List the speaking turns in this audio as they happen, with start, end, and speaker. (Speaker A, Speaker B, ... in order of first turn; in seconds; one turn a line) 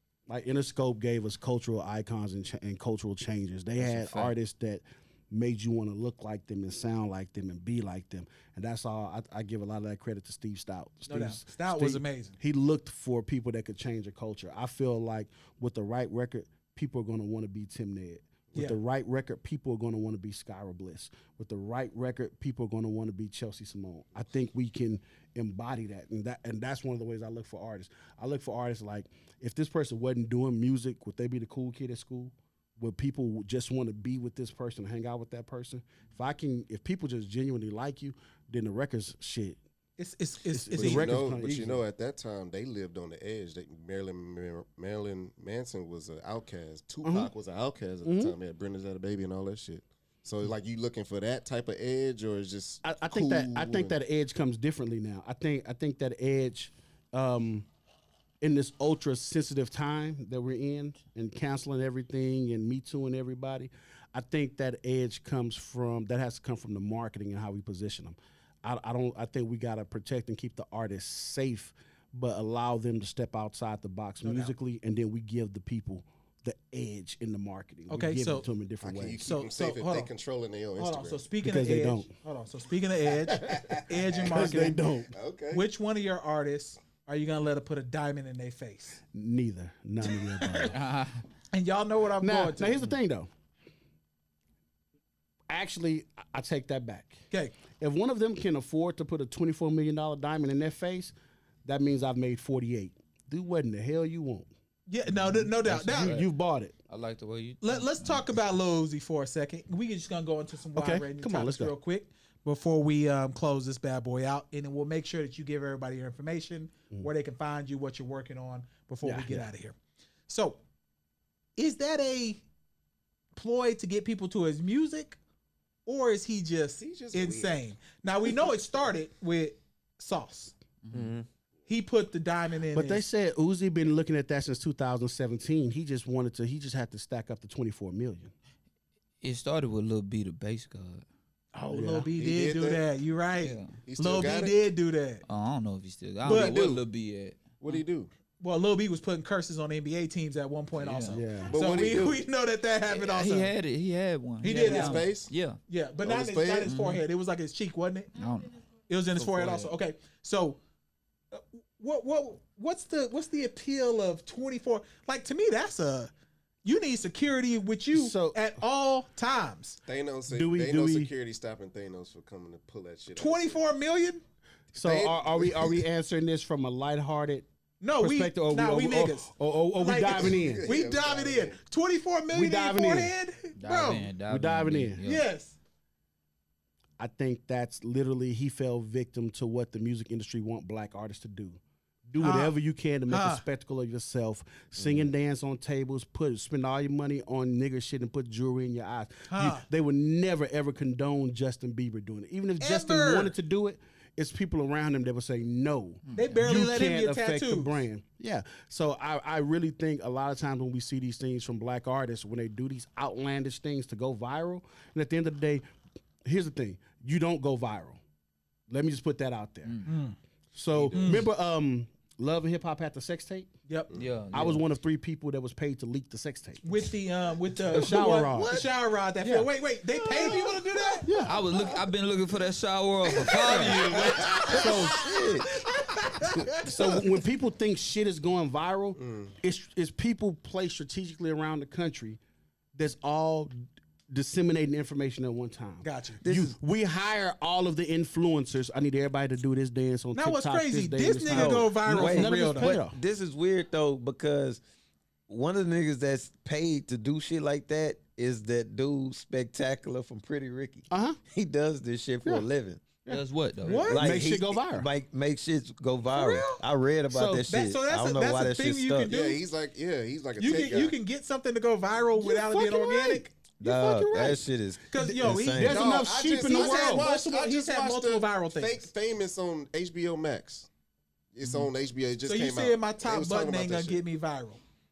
Speaker A: 0.3-39.6
Speaker B: 3.8-4.3
Speaker C: 11.1-12.3
Speaker C: 40.0-41.1
Speaker A: 40.5-41.8
Speaker D: 40.7-53.9
Speaker A: 47.0-47.3
Speaker A: 48.0-48.3
Speaker A: 52.8-57.7
Speaker A: 58.4-79.2
Speaker C: 74.2-74.5
Speaker C: 77.9-78.5
Speaker D: 78.8-81.2
Speaker C: 79.2-80.1
Speaker C: 80.8-84.8
Speaker A: 81.4-82.1
Speaker D: 83.3-85.7
Speaker A: 84.2-85.1
Speaker C: 85.5-89.0
Speaker A: 89.1-90.8
Speaker C: 90.2-90.7
Speaker B: 90.7-91.2
Speaker C: 91.5-92.8
Speaker A: 92.2-93.3
Speaker A: 95.5-97.2
Speaker A: 97.8-101.1
Speaker A: 101.6-104.5
Speaker C: 104.9-106.2
Speaker A: 105.2-106.7
Speaker B: 105.9-106.2
Speaker B: 106.9-108.2
Speaker C: 107.6-119.8
Speaker A: 110.7-111.7
Speaker A: 119.0-119.5
Speaker C: 120.3-120.6
Speaker C: 121.5-122.4
Speaker C: 123.3-125.2
Speaker C: 125.8-130.5
Speaker D: 126.8-127.6
Speaker B: 130.8-131.2
Speaker E: 130.9-131.2
Speaker C: 131.7-133.0
Speaker A: 132.7-138.3
Speaker B: 139.2-141.0
Speaker C: 141.5-145.2
Speaker A: 141.7-142.1
Speaker D: 142.2-142.8
Speaker B: 143.4-143.8
Speaker D: 143.8-144.6
Speaker B: 145.2-147.8
Speaker C: 146.2-146.6
Speaker D: 146.2-146.9
Speaker D: 147.6-148.1
Speaker C: 148.4-153.5
Speaker B: 150.8-151.2
Speaker A: 151.1-151.5
Speaker D: 151.5-152.2
Speaker B: 152.9-155.6
Speaker C: 154.4-155.1
Speaker D: 154.5-155.3
Speaker C: 155.7-158.2
Speaker D: 156.0-156.7
Speaker B: 156.7-157.0
Speaker B: 158.2-158.5
Speaker C: 158.9-160.6
Speaker B: 159.2-159.7
Speaker C: 161.3-166.1
Speaker C: 166.6-169.8
Speaker A: 167.9-168.4
Speaker D: 169.8-173.6
Speaker A: 170.3-171.1
Speaker C: 173.2-174.2
Speaker A: 174.7-177.5
Speaker D: 174.8-175.8
Speaker C: 177.8-184.1
Speaker A: 178.0-180.7
Speaker D: 180.1-181.6
Speaker A: 182.3-183.1
Speaker B: 183.6-185.3
Speaker A: 184.3-185.0
Speaker C: 185.0-185.5
Speaker A: 187.0-215.6
Speaker C: 192.2-192.6
Speaker C: 193.1-193.4
Speaker C: 199.3-199.7
Speaker C: 202.6-203.3
Speaker B: 206.1-206.4
Speaker C: 206.1-207.8
Speaker A: 216.2-218.0
Speaker A: 218.7-219.8
Speaker C: 219.8-220.2
Speaker A: 220.5-223.5
Speaker D: 220.7-221.1
Speaker C: 220.9-221.3
Speaker C: 223.7-223.9
Speaker B: 223.9-224.6
Speaker A: 224.3-226.8
Speaker C: 226.6-231.1
Speaker A: 227.6-228.7
Speaker E: 227.8-228.2
Speaker A: 231.0-231.4
Speaker B: 231.2-234.4
Speaker C: 233.0-237.0
Speaker D: 234.1-234.7
Speaker A: 234.5-235.0
Speaker E: 234.6-235.5
Speaker A: 236.6-242.2
Speaker D: 239.0-239.3
Speaker A: 242.7-253.0
Speaker C: 245.8-246.2
Speaker E: 246.2-246.5
Speaker C: 250.1-252.8
Speaker E: 251.3-254.6
Speaker E: 255.3-262.9
Speaker A: 260.9-261.2
Speaker B: 263.1-263.9
Speaker C: 263.6-264.0
Speaker E: 263.9-269.1
Speaker A: 263.9-264.9
Speaker C: 266.1-266.6
Speaker A: 267.1-267.5
Speaker C: 267.5-269.4
Speaker D: 269.1-270.9
Speaker C: 270.4-273.3
Speaker A: 272.2-274.4
Speaker E: 273.6-275.9
Speaker C: 274.9-278.8
Speaker A: 275.0-277.1
Speaker D: 275.6-280.7
Speaker D: 281.3-284.0
Speaker C: 282.2-284.6